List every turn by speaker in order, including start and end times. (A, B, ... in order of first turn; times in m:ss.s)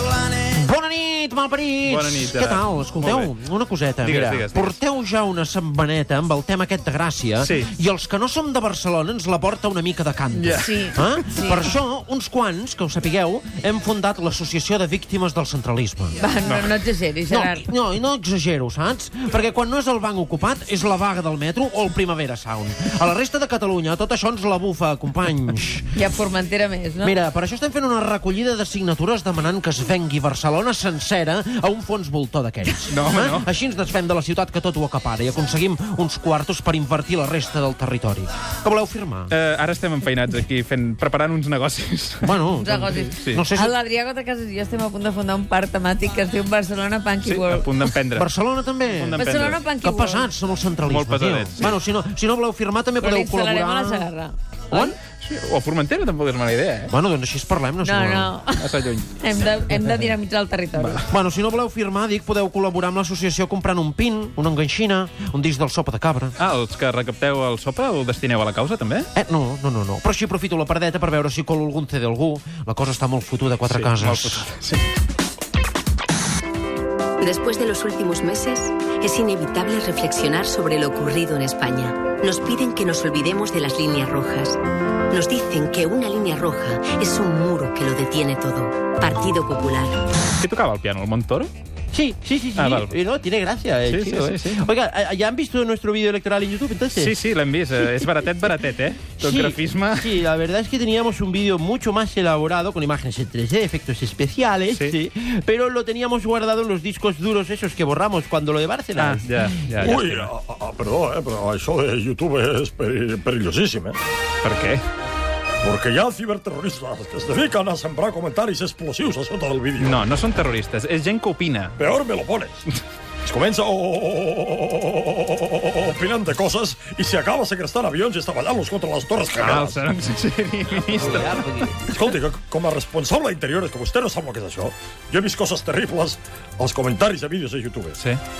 0:00.4-0:16.2 A
0:01.8-0:03.3 B
0:04.0-0:04.8 B
0:07.4-0:07.7 B
0:10.4-0:10.6 B
0:10.5-0:11.7 C
0:16.2-0:17.7 C
0:17.3-0:25.9 A
0:26.0-0:27.2 C
0:27.0-0:39.3 A
0:32.9-0:33.5 B
0:39.3-0:42.3 B
0:42.2-0:43.7 A
0:42.6-0:47.9 C
0:43.2-0:43.5 B
0:47.2-0:48.3 B
0:48.2-0:49.2 A
0:48.9-0:49.6 B
0:49.2-0:50.3 C
0:49.8-0:54.1 A
0:50.9-0:51.8 B
0:53.0-0:55.0 C
0:54.7-0:56.9 B
0:56.9-0:58.4 A
0:57.8-1:01.0 C
0:58.6-0:59.1 B
1:00.8-1:01.0 B
1:01.1-1:06.4 A
1:06.4-1:09.1 B
1:09.2-1:14.5 A
1:13.6-1:14.8 B
1:17.2-1:24.6 D
1:25.1-1:30.0 D
1:30.4-1:31.5 B
1:31.9-1:37.2 A
1:32.6-1:33.0 B
1:33.9-1:34.6 B
1:37.0-1:40.2 B
1:37.8-1:38.1 A
1:39.2-1:49.9 A
1:49.0-1:50.3 B
1:49.8-1:54.0 E
1:54.4-1:54.8 B
1:55.6-2:00.0 E
1:59.8-2:01.8 B
2:01.8-2:02.6 E
2:03.2-2:09.8 E
2:09.3-2:11.8 B
2:11.0-2:11.8 A
2:11.9-2:18.0 E